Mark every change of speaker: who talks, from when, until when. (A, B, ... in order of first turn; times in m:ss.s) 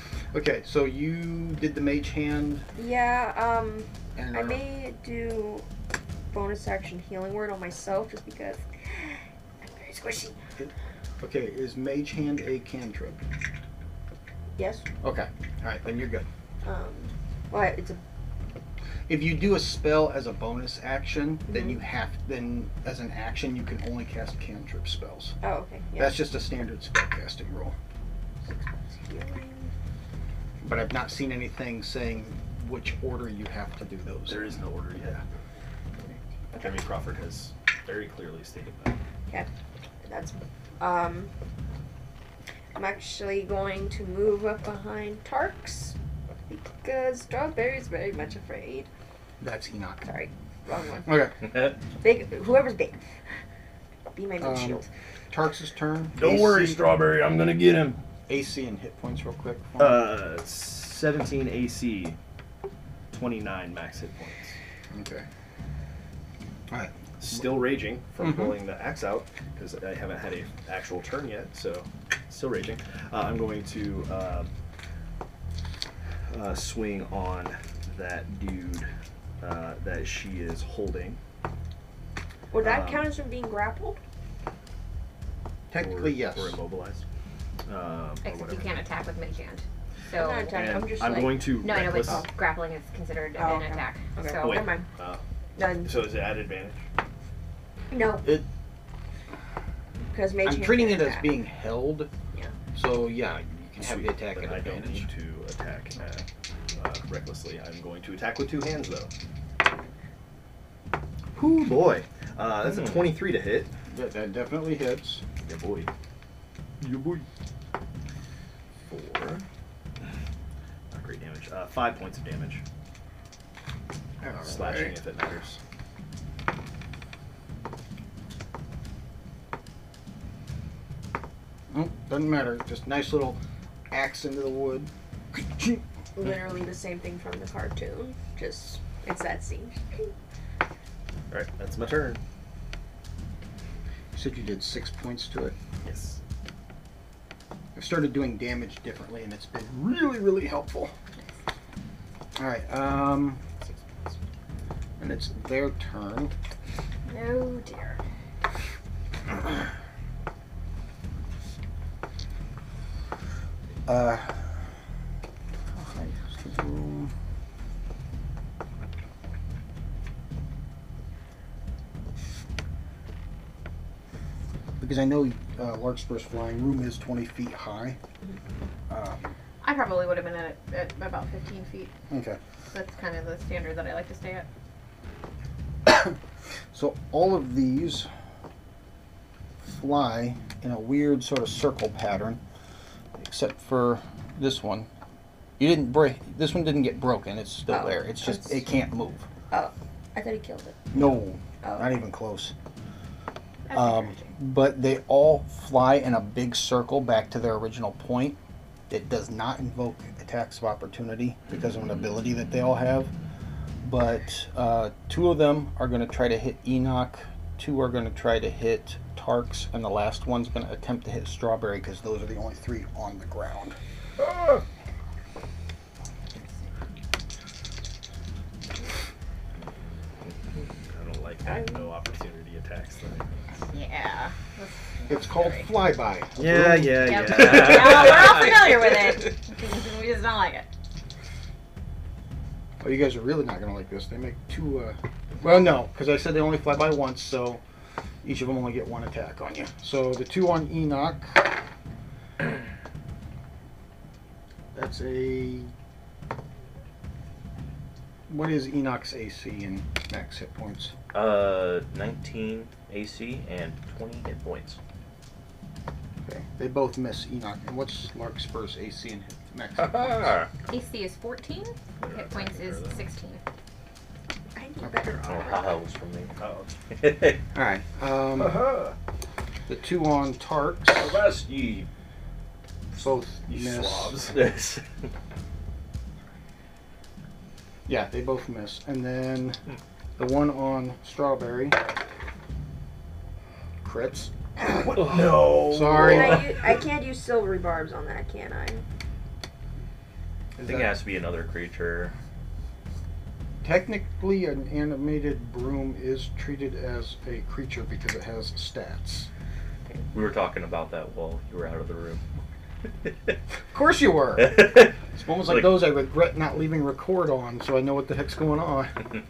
0:00.3-0:02.7 A
0:02.8-0:05.7 B
0:04.2-0:04.6 A
0:06.3-0:10.4 B
0:10.6-0:13.2 A
0:14.6-0:14.9 B
0:15.0-0:16.3 A
0:16.6-0:18.0 B
0:19.1-0:25.4 A
0:21.5-0:21.8 B
0:25.4-0:26.2 B
0:26.0-0:27.8 A
0:28.5-0:29.7 B
0:30.6-0:34.6 A
0:34.3-0:35.2 C
0:36.0-0:36.8 B
0:36.6-0:39.0 C
0:40.0-0:41.3 B
0:42.8-0:46.0 B
0:46.5-0:48.9 B
0:49.4-0:50.0 A
0:50.0-0:51.2 B
0:51.1-0:51.4 A
0:51.4-0:51.8 D
0:52.0-0:53.0 B
0:54.2-0:54.9 B
0:54.4-0:56.8 A
0:56.2-0:58.0 C
0:58.3-1:00.1 A
0:59.8-1:02.2 C
1:03.1-1:04.6 C
1:04.9-1:05.3 A
1:06.7-1:07.0 A
1:07.2-1:14.5 C
1:08.2-1:08.5 A
1:16.3-1:18.9 C
1:19.4-1:21.2 C
1:22.5-1:24.0 B
1:22.6-1:23.1 C
1:25.7-1:26.6 A
1:25.7-1:27.0 C
1:27.7-1:28.7 C
1:28.2-1:30.6 E
1:30.1-1:32.3 B
1:30.5-1:32.2 C
1:31.6-1:34.7 E
1:33.4-1:34.9 B
1:34.4-1:35.2 C
1:35.6-1:35.9 B
1:35.8-1:36.8 C
1:37.9-1:38.4 B
1:40.1-1:41.3 B
1:40.4-1:42.1 A
1:42.7-1:45.1 A
1:43.8-1:46.2 C
1:46.8-1:49.1 C
1:51.4-1:53.7 C
1:53.9-1:55.2 A
1:55.4-1:55.9 C
1:56.8-1:57.3 C
1:58.9-1:59.4 C
2:00.9-2:02.6 C
2:04.2-2:05.0 A
2:04.4-2:05.6 C
2:11.7-2:13.4 A
2:13.9-2:15.8 A
2:16.2-2:20.1 B
2:21.3-2:22.2 C
2:24.1-2:25.6 A
2:25.8-2:26.2 C
2:27.8-2:30.9 A
2:32.4-2:33.4 A
2:35.0-2:36.3 A
2:37.1-2:38.0 E
2:43.9-2:44.5 A
2:45.8-2:47.1 A
2:54.8-2:58.0 A
2:58.9-2:59.3 A
2:59.6-3:01.9 E
3:02.1-3:02.4 A
3:02.7-3:04.5 E
3:05.9-3:06.2 A
3:06.7-3:08.1 A
3:09.6-3:12.4 A
3:13.2-3:14.9 A
3:15.6-3:19.3 A
3:17.7-3:18.6 B
3:19.5-3:22.0 B
3:20.9-3:22.5 A
3:23.7-3:24.3 E
3:23.7-3:28.4 A
3:28.9-3:33.1 A
3:33.8-3:43.8 A
3:50.9-3:53.3 C
3:51.5-3:51.9 B
3:53.7-3:55.7 E
3:55.1-3:57.2 A
3:56.4-3:58.5 C
3:57.0-4:00.7 E
3:57.3-3:58.9 D
4:02.8-4:07.6 A
4:08.2-4:11.6 A
4:14.7-4:15.7 A
4:18.3-4:20.9 A
4:21.1-4:24.8 D
4:26.2-4:30.3 A
4:29.8-4:30.5 D
4:30.7-4:33.4 E
4:32.0-4:33.0 C
4:34.6-4:35.8 B
4:35.2-4:36.3 D
4:36.4-4:36.7 C
4:36.9-4:37.4 D
4:37.6-4:38.8 A
4:38.4-4:38.9 C
4:39.7-4:41.2 A
4:40.9-4:41.9 D
4:43.0-4:44.2 A
4:43.3-4:44.4 C
4:44.3-4:44.8 D
4:47.9-4:49.6 A
4:50.2-4:51.8 A
4:53.8-4:56.5 A
4:54.8-4:56.4 C
4:55.0-4:55.7 D
4:56.0-4:58.8 B
5:00.6-5:02.1 D
5:00.6-5:01.0 A
5:03.6-5:09.3 A
5:10.1-5:12.2 D
5:13.0-5:13.3 D
5:13.7-5:19.2 A
5:14.4-5:15.8 D